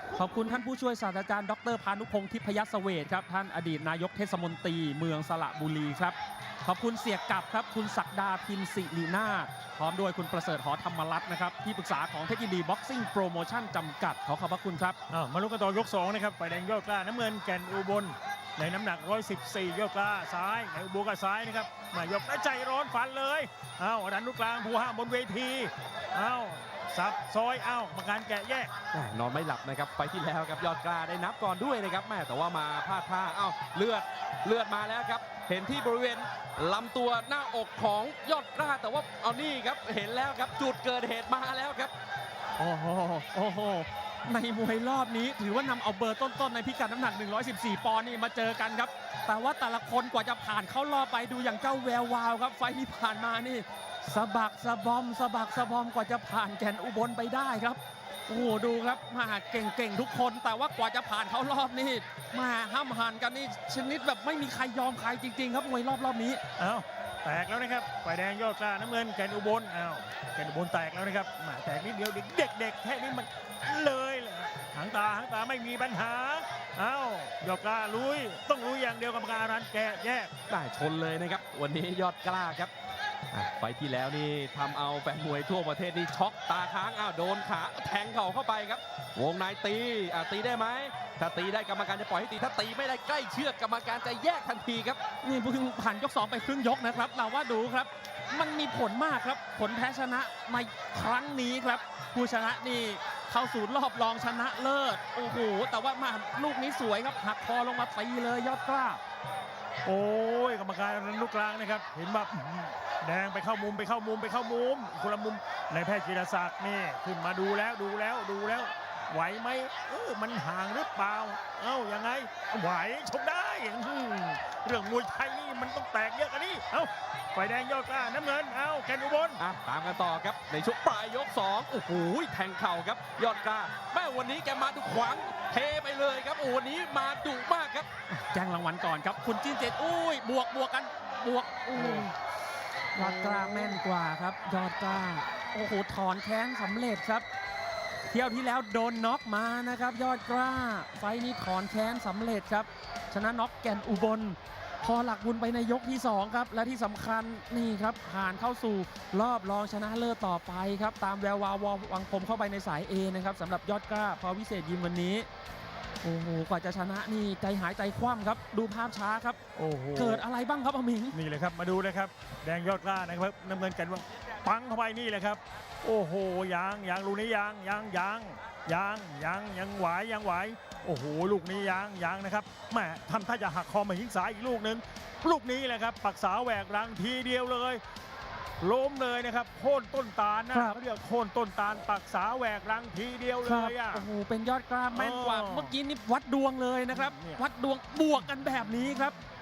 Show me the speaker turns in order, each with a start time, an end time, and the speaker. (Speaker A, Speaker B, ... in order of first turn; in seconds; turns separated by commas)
Speaker A: 0.2-15.0, Speaker B: 15.1-28.7, Speaker C: 28.9-41.9, Speaker A: 42.6-66.4, Speaker B: 66.6-80.3, Speaker C: 80.5-82.7, Speaker C: 83.3-95.0, Speaker A: 95.2-109.0, Speaker B: 109.8-129.4, Speaker C: 129.4-137.9, Speaker A: 138.1-142.1, Speaker B: 141.7-142.1, Speaker A: 142.9-147.2, Speaker B: 143.0-143.8, Speaker A: 148.1-165.3, Speaker A: 166.0-169.4, Speaker B: 169.5-170.2, Speaker A: 169.9-171.2, Speaker B: 171.1-187.8, Speaker B: 188.6-194.1, Speaker A: 190.5-190.8, Speaker A: 193.4-199.2, Speaker B: 194.9-195.8, Speaker B: 196.9-197.4